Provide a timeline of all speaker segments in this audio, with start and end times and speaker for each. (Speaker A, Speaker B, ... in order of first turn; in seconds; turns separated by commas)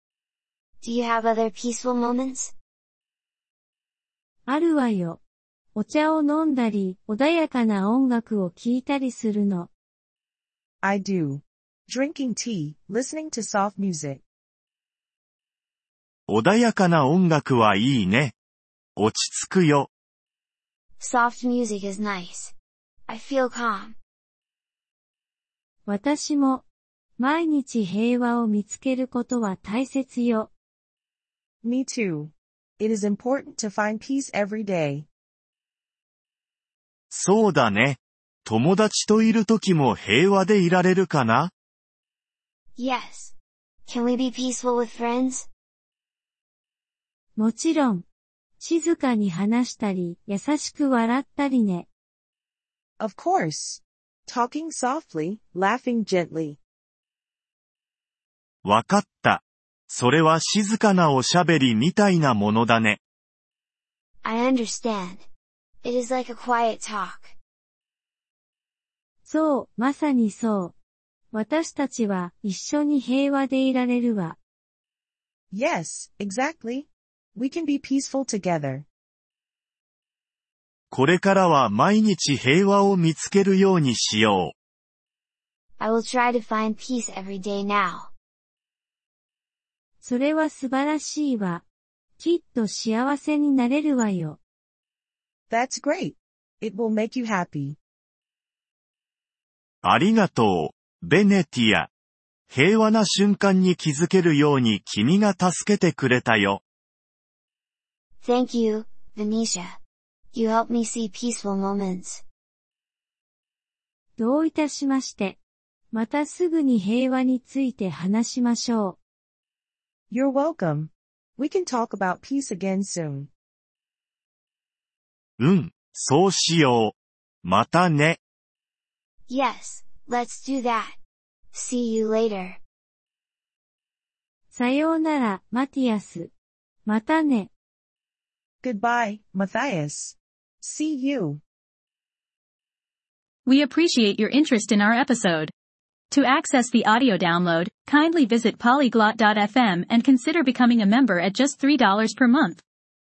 Speaker A: 0.8-2.5, Speaker B: 4.5-5.2, Speaker B: 5.7-9.7, Speaker C: 10.8-14.2, Speaker D: 16.3-18.3, Speaker D: 19.0-19.9, Speaker A: 21.0-22.5, Speaker A: 23.1-23.9, Speaker B: 25.9-26.6, Speaker B: 27.2-30.5, Speaker C: 31.6-35.1, Speaker D: 37.1-41.5, Speaker A: 42.8-43.3, Speaker A: 43.9-45.5, Speaker B: 47.4-48.0, Speaker B: 48.6-51.9, Speaker C: 53.0-56.6, Speaker D: 58.6-63.0, Speaker A: 64.2-65.2, Speaker A: 65.8-67.3, Speaker B: 69.2-70.7, Speaker B: 71.3-74.4, Speaker C: 75.5-78.8, Speaker D: 80.9-84.5, Speaker A: 85.8-88.1, Speaker B: 90.0-91.6, Speaker B: 92.2-94.4, Speaker C: 95.5-97.8, Speaker D: 99.8-101.9, Speaker D: 102.5-106.6, Speaker A: 108.2-109.8, Speaker A: 110.3-112.2, Speaker B: 114.2-115.4, Speaker B: 115.9-119.0, Speaker C: 120.1-123.3, Speaker D: 125.4-128.2, Speaker A: 129.3-131.0, Speaker A: 131.5-132.6, Speaker B: 134.5-136.3, Speaker B: 136.8-137.5, Speaker C: 138.6-141.4, Speaker E: 143.4-145.5, Speaker E: 146.1-152.6